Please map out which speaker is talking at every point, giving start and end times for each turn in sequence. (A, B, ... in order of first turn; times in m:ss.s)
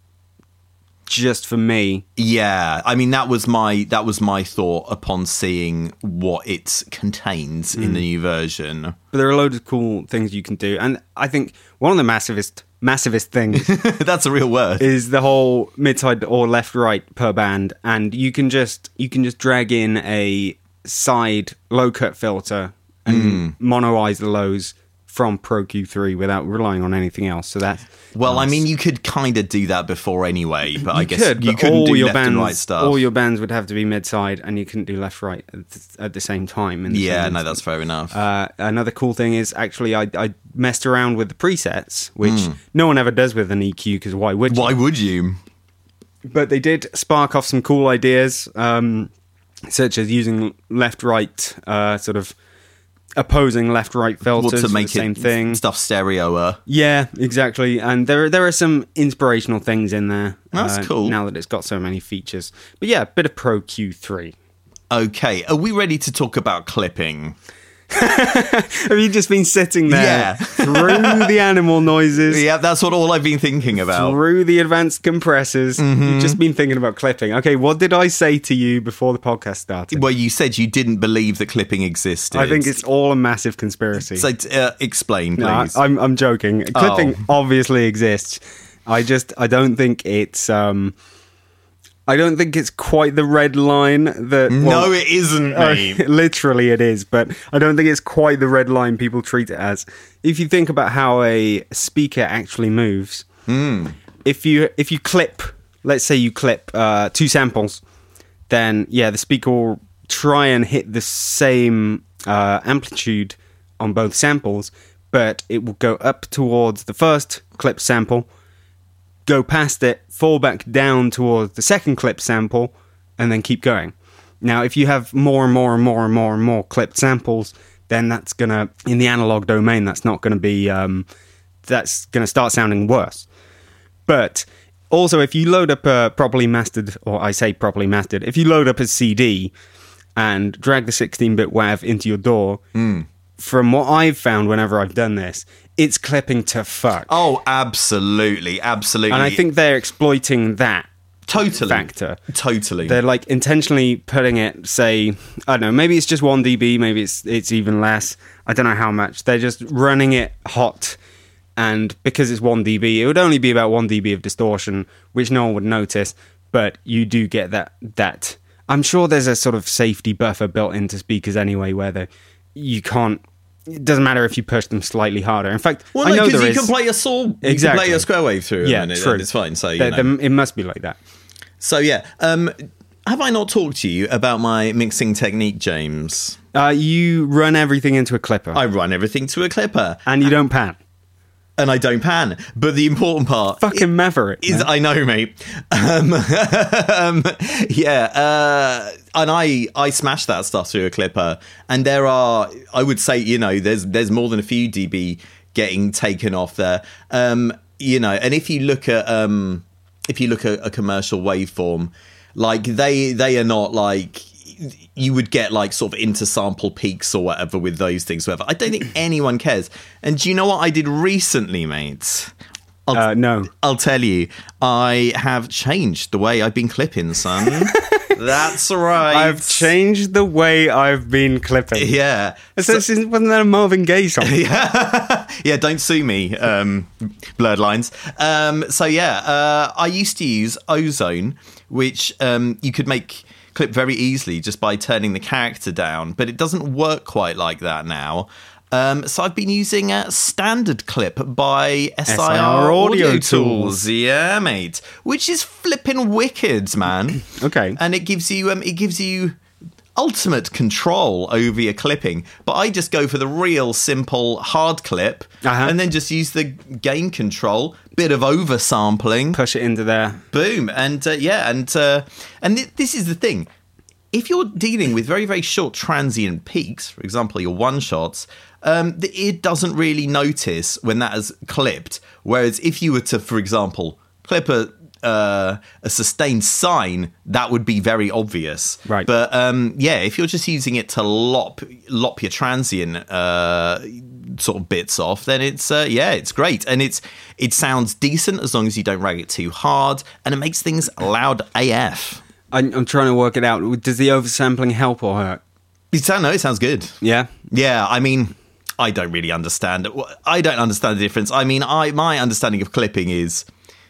0:01.1-0:02.0 A
0:02.2-0:09.0 B
0:07.8-0:08.0 A
0:09.1-0:13.7 A
0:13.5-0:14.9 B
0:14.8-0:28.6 A
0:23.1-0:23.5 B
0:28.1-0:33.0 B
0:30.8-0:37.6 A
0:36.9-0:38.1 B
0:38.1-0:44.8 A
0:42.2-0:42.6 B
0:44.5-0:45.4 B
0:46.2-0:49.1 A
0:49.7-0:52.4 A
0:53.2-0:55.6 A
0:54.3-0:56.6 B
0:56.7-1:04.3 A
1:00.5-1:01.2 B
1:04.9-1:07.4 B
1:07.9-1:12.4 A
1:09.9-1:11.3 B
1:12.3-1:14.2 B
1:13.8-1:20.0 A
1:15.8-1:16.4 B
1:19.9-1:22.8 B
1:22.3-1:24.3 A
1:24.0-1:25.8 B
1:25.4-1:30.9 A
1:26.7-1:27.2 B
1:32.1-1:34.9 A
1:34.5-1:36.0 B
1:35.5-1:43.3 A
1:43.5-1:44.0 B
1:44.2-1:47.8 A
1:48.5-1:58.3 A
1:59.3-2:11.1 A
2:11.6-2:13.3 A
2:14.1-2:19.5 A
2:20.2-2:22.6 A
2:22.8-2:23.1 B
2:23.4-2:27.1 A
2:27.1-2:29.4 B
2:29.1-2:30.9 A
2:31.3-2:33.0 B
2:31.5-2:32.2 A
2:32.8-2:41.0 A
2:41.6-2:56.7 A
2:55.9-3:00.1 B
2:57.4-2:58.1 A
2:58.6-2:59.3 A
2:59.8-3:01.0 A
3:01.6-3:02.6 B
3:03.1-3:06.4 B
3:06.5-3:08.6 A
3:08.5-3:10.1 B
3:10.1-3:10.8 A
3:11.6-3:13.9 B
3:13.6-3:14.7 A
3:14.4-3:42.3 B
3:42.9-3:49.7 B
3:42.9-3:43.5 A
3:47.7-3:48.1 A
3:49.1-3:52.0 A
3:51.8-3:52.8 B
3:52.6-3:54.4 A
3:54.2-4:17.2 B
4:12.1-4:13.9 A
4:17.3-4:17.8 A
4:17.8-4:19.4 B
4:20.0-4:29.4 B
4:25.4-4:25.8 A
4:29.3-4:30.2 A
4:30.3-4:33.5 B
4:34.1-5:02.2 B
5:02.5-5:05.4 A
5:05.9-5:07.0 B
5:07.0-5:07.3 A
5:07.5-5:13.5 B